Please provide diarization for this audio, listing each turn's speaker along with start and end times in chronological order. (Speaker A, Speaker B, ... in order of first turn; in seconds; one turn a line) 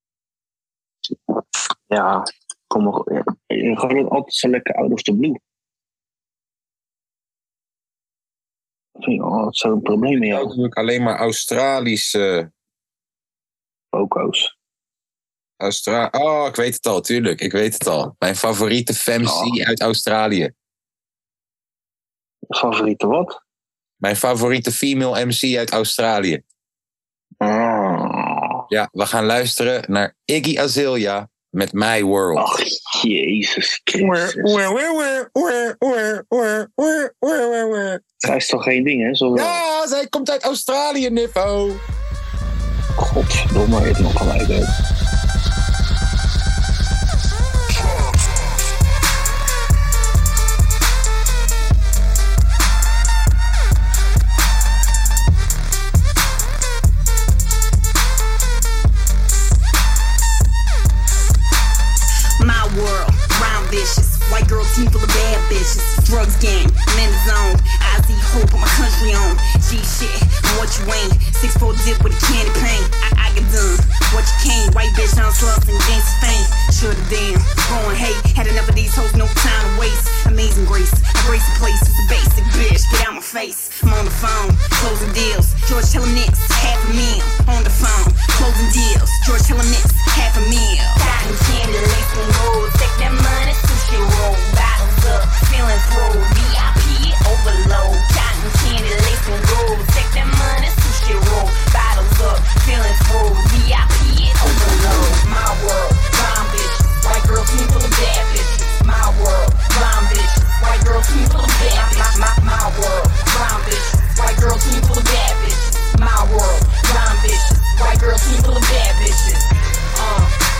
Speaker A: 1.9-5.4
Speaker A: 9.0-10.5
Speaker B: 10.3-12.5
Speaker A: 13.9-14.5
Speaker B: 15.6-20.5
Speaker A: 19.2-19.6
Speaker A: 22.5-23.4
Speaker B: 24.0-26.4
Speaker A: 27.4-28.7
Speaker B: 28.7-32.5
Speaker A: 32.4-34.6
Speaker B: 34.0-38.1
Speaker A: 38.2-39.6
Speaker B: 39.3-41.8
Speaker A: 43.0-44.7
Speaker C: 62.4-120.3